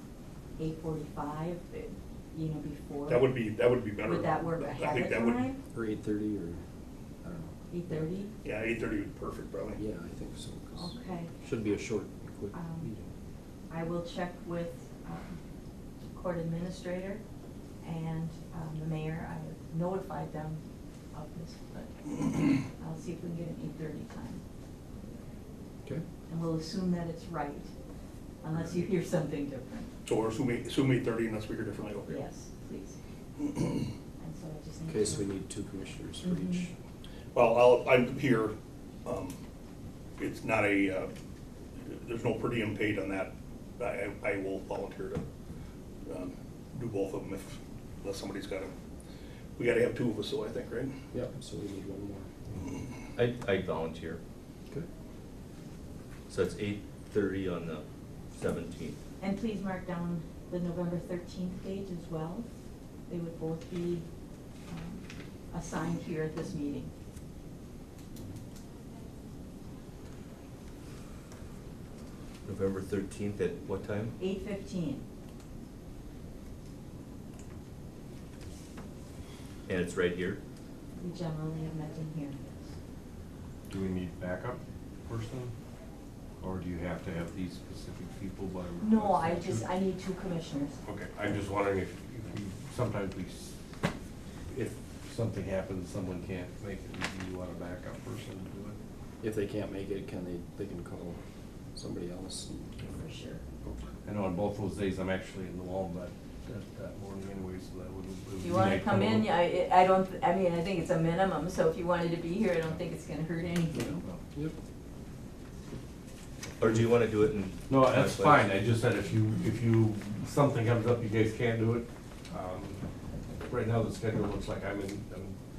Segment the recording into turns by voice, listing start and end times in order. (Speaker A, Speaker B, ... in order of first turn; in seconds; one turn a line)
Speaker A: 0.6-3.3
Speaker B: 3.1-5.5
Speaker A: 4.0-5.6
Speaker C: 5.7-6.6
Speaker C: 7.2-8.1
Speaker A: 7.7-8.3
Speaker B: 8.4-9.8
Speaker C: 9.8-13.1
Speaker A: 10.8-11.3
Speaker A: 12.5-12.9
Speaker A: 13.7-15.4
Speaker A: 16.0-17.2
Speaker A: 17.8-20.6
Speaker A: 21.1-24.4
Speaker A: 26.3-27.7
Speaker A: 28.4-29.9
Speaker B: 30.1-32.2
Speaker A: 32.1-33.0
Speaker A: 34.2-35.3
Speaker C: 34.9-36.7
Speaker A: 36.2-36.7
Speaker B: 37.3-38.5
Speaker B: 39.0-39.4
Speaker B: 40.2-41.1
Speaker B: 41.8-45.2
Speaker B: 46.1-48.7
Speaker B: 49.6-51.0
Speaker C: 51.1-52.3
Speaker D: 53.1-54.2
Speaker D: 56.3-59.0
Speaker A: 59.2-62.5
Speaker A: 63.1-64.1
Speaker A: 64.7-66.9
Speaker D: 72.5-74.1
Speaker A: 74.2-75.0
Speaker D: 79.7-80.4
Speaker A: 81.0-82.6
Speaker E: 83.7-85.5
Speaker E: 86.4-89.7
Speaker A: 88.8-90.8
Speaker E: 90.8-93.6
Speaker E: 94.5-98.8
Speaker C: 99.2-101.2
Speaker C: 101.8-102.7
Speaker A: 102.9-103.4
Speaker E: 103.7-109.2
Speaker A: 108.4-114.0
Speaker C: 113.8-114.5
Speaker D: 116.6-118.5
Speaker E: 117.7-122.8
Speaker E: 123.4-125.4